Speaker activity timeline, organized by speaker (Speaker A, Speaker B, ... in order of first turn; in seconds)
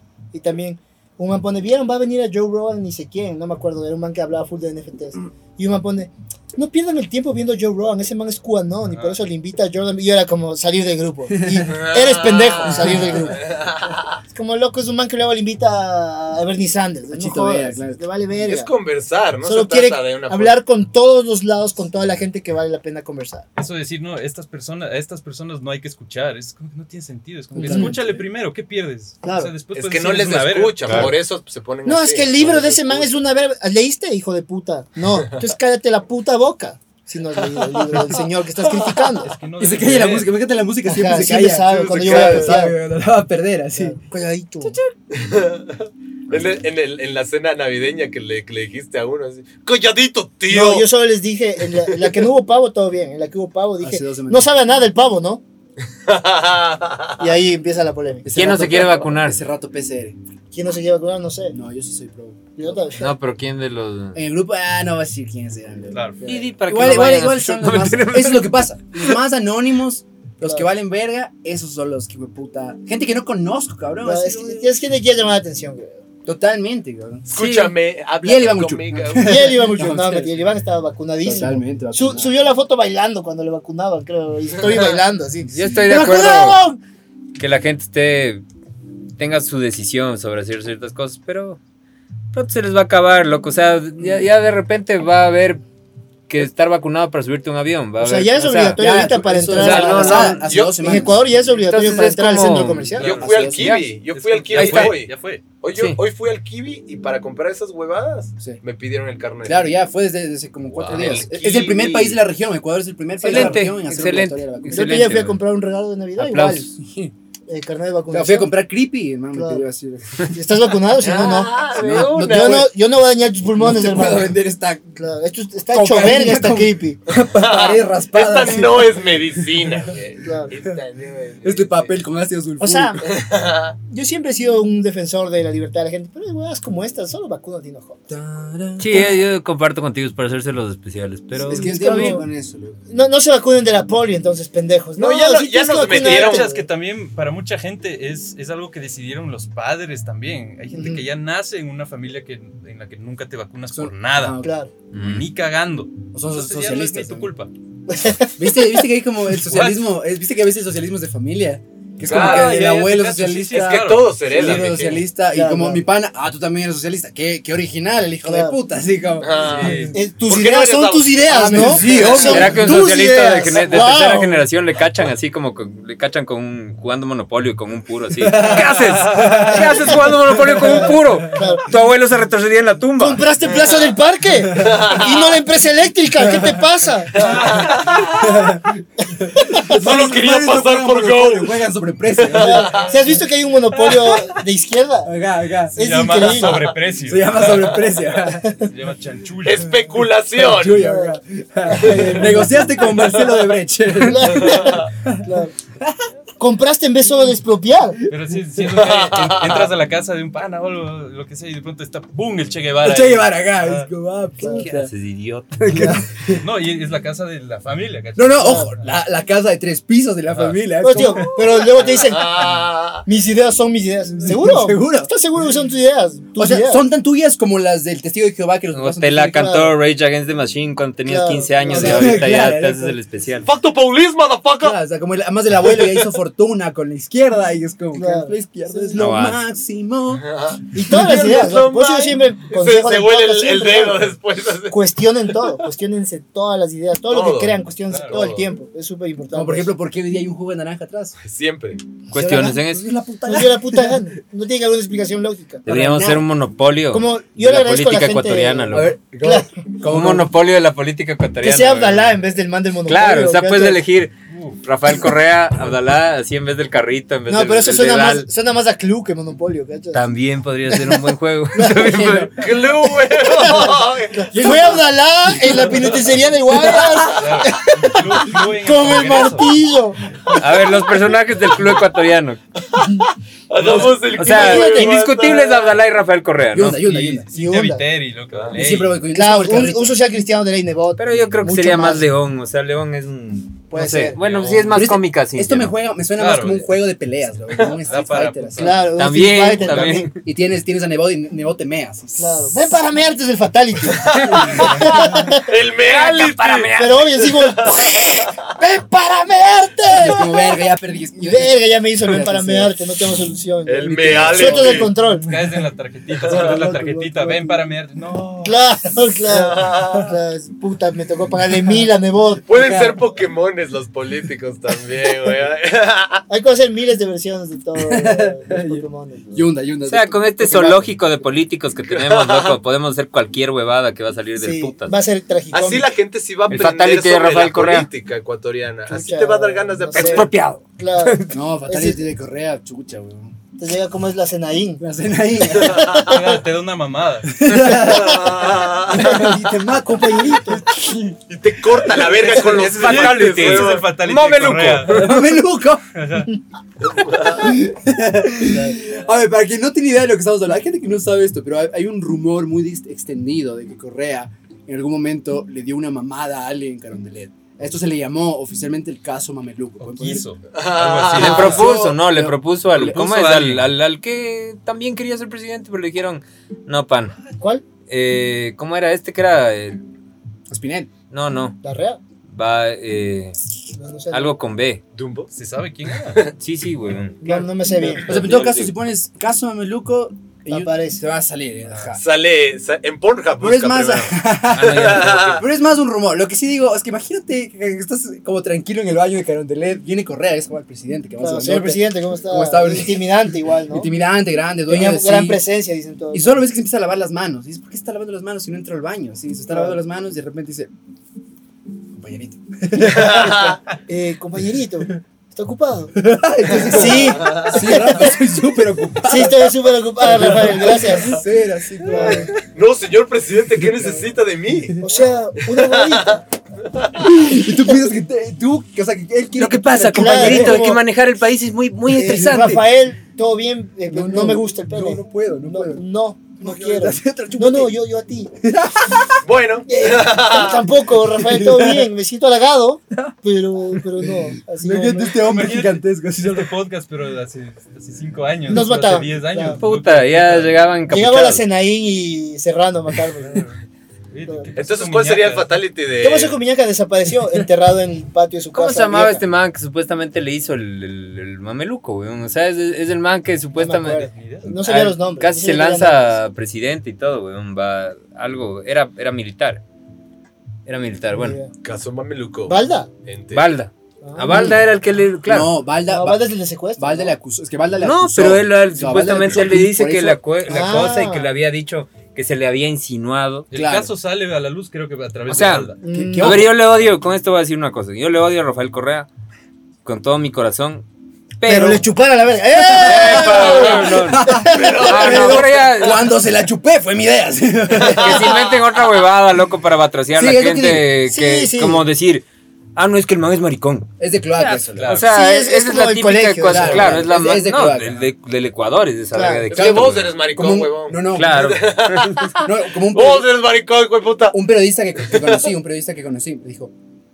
Speaker A: 0.3-13.5, 14.3-18.7, 19.4-23.5, 27.5-28.1, 29.2-29.5, 31.9-39.3, 40.9-42.8, 43.8-44.8, 50.5-55.4, 57.2-58.3, 60.5-61.6, 62.6-63.1, 70.4-70.7, 74.0-76.0, 79.2-86.8, 98.0-103.1, 113.2-113.7, 114.7-116.7, 117.5-118.5, 119.3-119.7, 120.3-124.3, 125.0-127.0, 130.2-130.5, 132.6-133.1, 133.9-138.0, 141.5-142.3, 142.9-146.7, 150.7-151.0, 154.4-154.7, 157.9-158.8, 165.3-165.8, 168.2-168.6, 169.9-174.5, 180.6-181.7, 183.0-187.5, 189.3-189.7, 192.3-195.1, 195.8-196.6, 198.4-198.7, 200.7-202.8, 203.9-205.5, 206.4-208.0, 214.4-214.7, 215.7-216.0, 218.4-218.7, 220.8-226.8, 229.4-229.8, 231.1-232.3, 237.9-239.1, 240.7-244.1, 244.7-249.7, 252.1-252.6, 253.2-255.6, 256.9-259.6, 261.4-263.8, 267.3-270.1, 270.7-272.3, 273.0-280.4, 283.7-285.0, 287.3-287.9, 289.1-292.1, 293.7-294.2, 298.6-300.1, 302.2-305.5, 306.8-310.6, 311.2-315.4, 316.3-317.6, 318.4-322.9, 326.3-329.5, 330.4-330.8, 334.4-335.9, 338.9-342.0, 343.6-344.8, 345.4-346.4, 347.5-348.4, 348.9-350.6, 377.4-377.6, 381.6-382.0, 383.7-384.4, 387.2-388.2, 390.5-391.0, 401.2-403.9, 404.7-406.4, 409.5-409.8, 412.8-418.2, 419.0-421.2, 421.9-422.4, 424.8-426.2, 427.2-427.7, 429.9-430.8, 431.9-438.3, 439.7-445.2, 448.5-449.6, 450.9-453.5, 456.0-459.2, 463.6-466.2, 471.1-471.5, 472.5-472.9, 474.0-474.6, 475.9-477.2, 480.5-481.3, 485.8-486.5, 491.4-495.5, 501.1-501.9, 505.1-507.1, 509.1-509.5
Speaker B: 8.9-9.2, 23.6-31.1, 39.2-40.4, 65.9-66.2, 103.0-103.4, 104.0-105.4, 145.8-154.4, 154.9-157.5, 159.4-159.9, 162.0-165.0, 169.4-170.0, 178.4-179.8, 195.7-197.9, 198.6-199.8, 208.1-213.9, 216.4-218.9, 220.3-220.6, 247.9-248.2, 264.3-264.6, 277.1-279.5, 283.6-284.1, 286.9-289.0, 294.2-294.8, 296.1-296.7, 297.9-298.9, 315.2-318.7, 346.0-347.4, 352.3-355.1, 355.9-356.3, 369.8-371.7, 372.8-373.7, 385.3-386.3, 445.2-450.6, 453.2-453.6, 454.1-455.6, 464.1-464.5, 483.5-485.8, 504.8-505.1
Speaker C: 11.3-11.7, 12.6-13.3, 17.1-18.0, 27.6-28.0, 38.6-44.0, 53.8-54.5, 58.2-60.2, 61.5-62.8, 64.1-74.7, 76.2-77.3, 78.2-80.4, 81.2-82.3, 98.8-101.2, 102.8-103.8, 109.4-115.0, 118.1-120.3, 121.8-122.7, 123.6-124.9, 125.7-129.9, 131.4-133.1, 138.1-139.2, 141.4-142.8, 153.7-154.5, 156.1-157.3, 158.4-169.9, 171.3-172.8, 178.2-181.2, 186.2-186.6, 188.0-192.9, 193.8-194.3, 195.0-195.8, 197.0-198.5, 200.3-205.3, 205.8-206.1, 212.8-214.9, 215.6-216.4, 218.2-221.4, 224.2-225.1, 226.4-229.6, 231.7-233.0, 234.6-240.3, 241.0-241.3, 249.3-251.2, 252.2-254.0, 255.7-256.3, 258.7-260.3, 271.8-272.3, 274.3-277.3, 286.5-287.3, 288.5-290.0, 294.7-298.8, 299.6-302.8, 304.3-304.7, 309.9-312.8, 313.8-314.9, 322.5-322.9, 327.8-330.6, 341.3-343.4, 344.8-345.9, 347.3-351.2, 354.9-356.0, 357.2-370.3, 371.1-373.1, 380.5-380.9, 388.0-392.0, 393.4-405.4, 406.1-410.7, 411.9-413.5, 416.0-422.4, 423.6-423.9, 427.0-430.6, 432.2-432.6, 433.9-435.8, 436.4-437.8, 438.4-439.2, 441.0-441.9, 443.7-446.5, 474.3-474.5, 475.2-480.2, 483.5-483.9, 485.9-486.6, 492.6-498.4, 500.1-500.9, 504.0-505.0, 506.5-508.0, 509.5-511.6, 512.4-513.3, 514.3-516.7
Speaker D: 11.6-14.2, 18.4-20.6, 29.7-33.1, 37.6-38.0, 41.7-42.6, 45.1-50.9, 56.0-57.3, 77.3-79.6, 84.6-85.0, 100.5-101.0, 103.0-109.8, 110.7-112.2, 127.2-132.0, 133.0-133.8, 145.0-146.5, 162.0-162.7, 163.5-165.0, 169.2-172.4, 183.5-183.9, 184.6-185.4, 187.1-188.5, 189.6-191.6, 192.2-192.9, 196.2-196.8, 199.4-200.9, 204.4-204.9, 208.7-209.7, 221.6-223.1, 233.4-234.8, 235.7-236.1, 240.1-244.8, 247.1-248.4, 251.2-251.8, 272.4-274.4, 282.8-285.8, 288.3-288.6, 304.0-306.8, 307.3-308.4, 313.6-314.9, 316.2-316.5, 319.2-320.1, 322.5-326.2, 331.9-332.6, 335.5-340.3, 345.7-346.0, 347.7-349.1, 351.3-353.9, 356.8-357.6, 370.5-371.6, 384.9-385.3, 391.9-395.4, 412.8-413.6, 417.1-417.6, 421.9-424.9, 425.5-426.2, 426.8-427.0, 439.2-440.6, 454.6-456.4, 471.6-473.5, 493.4-493.8, 494.4-495.6, 497.8-498.5, 509.5-514.4, 515.1-515.5
Speaker E: 30.9-31.1, 58.3-59.4, 62.9-64.2, 66.2-69.2, 77.3-77.7, 85.5-86.6, 87.4-88.4, 89.2-91.6, 92.3-95.6, 96.3-98.8, 99.5-100.5, 101.6-104.0, 104.5-105.0, 105.7-106.0, 113.2-115.4, 116.2-117.1, 121.0-122.6, 138.8-142.1, 154.9-155.3, 172.1-183.2, 214.5-215.9, 228.7-233.5, 239.0-239.4, 252.1-252.9, 255.6-259.0, 259.8-262.2, 262.9-268.3, 269.9-272.4, 280.3-282.4, 284.1-287.0, 291.0-295.7, 298.9-300.2, 305.8-307.0, 329.9-335.0, 336.5-337.9, 339.9-341.3, 352.3-355.3, 371.1-377.2, 377.9-379.8, 381.1-381.6, 382.3-383.4, 384.1-384.8, 386.4-388.7, 394.5-395.4, 429.4-432.6, 449.6-451.4, 458.5-469.6, 470.7-471.4, 473.3-475.5, 477.8-483.5, 485.3-489.1, 489.8-490.9, 491.4-491.9, 492.7-496.0, 497.9-502.2, 502.8-510.2, 511.1-512.4